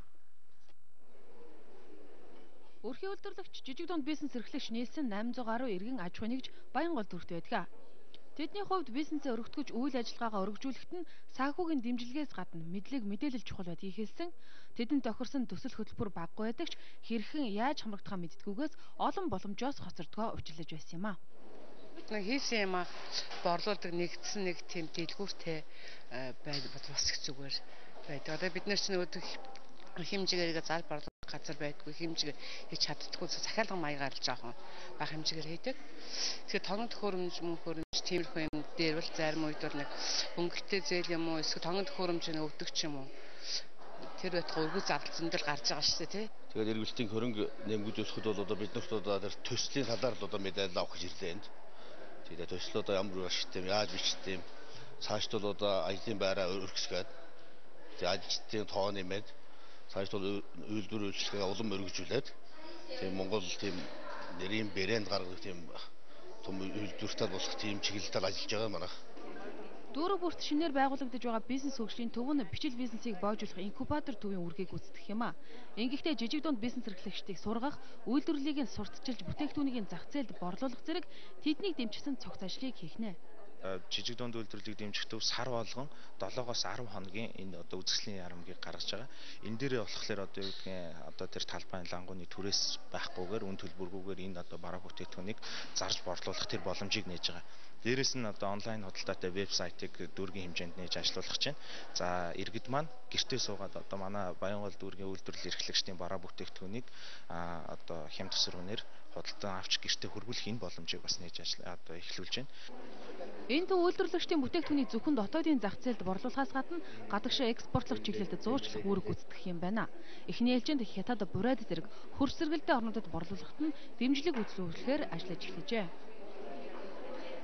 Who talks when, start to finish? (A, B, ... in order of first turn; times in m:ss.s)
0:02.8-0:07.7 A
0:08.4-0:21.2 A
0:22.0-0:46.3 B
0:46.5-0:51.5 C
0:52.2-0:54.5 C
0:55.0-0:57.1 C
0:58.0-0:59.3 C
0:59.9-1:02.3 C
1:03.0-1:05.8 C
1:06.4-1:08.9 C
1:09.9-1:23.2 A
1:23.7-1:52.5 D
1:53.5-2:05.9 A